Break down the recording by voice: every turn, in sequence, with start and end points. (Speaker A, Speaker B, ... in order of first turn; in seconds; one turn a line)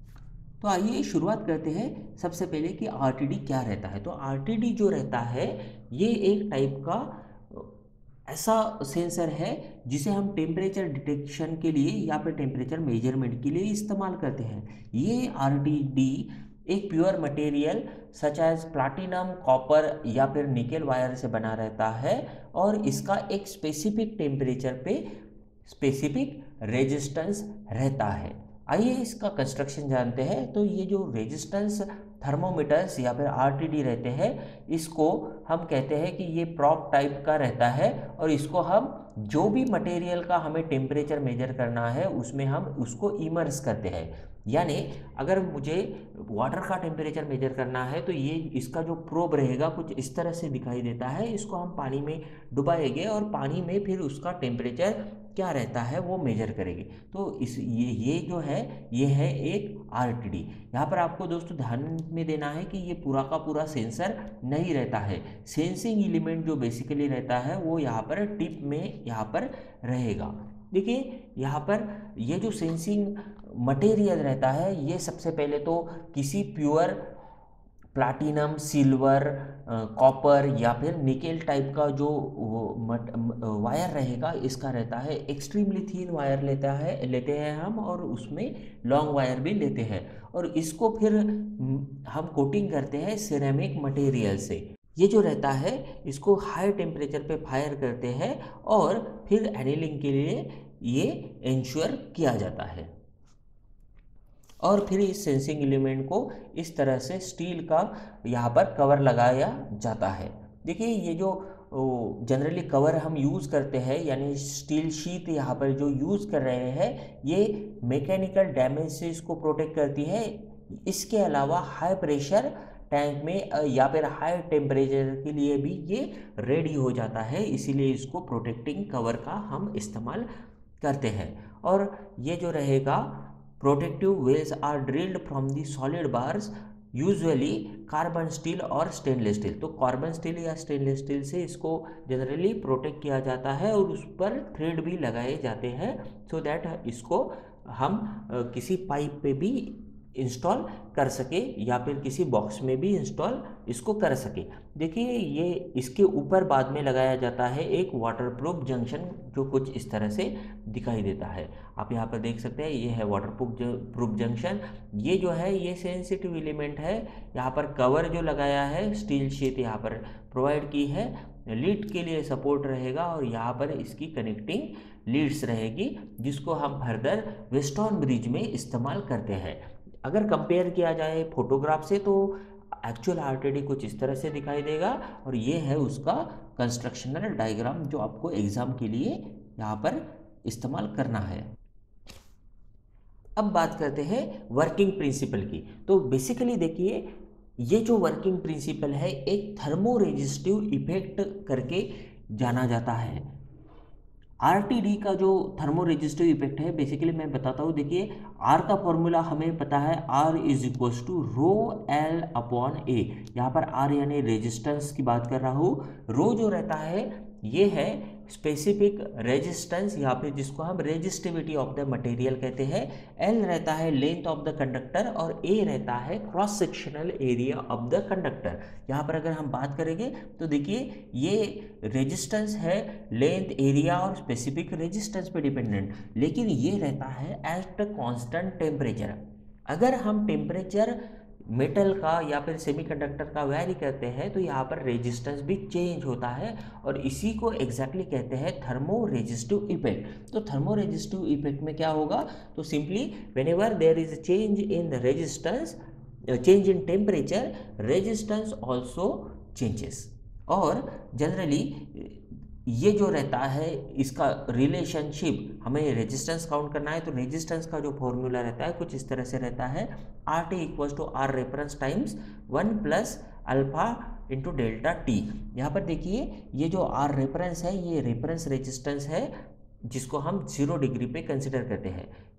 Speaker A: 0.6-7.7
Speaker A: 8.3-25.1
Speaker A: 25.6-77.1
Speaker A: 77.9-102.9
Speaker A: 104.6-130.3
Speaker A: 130.8-191.5
Speaker A: 193.4-203.3
Speaker A: 204.4-282.1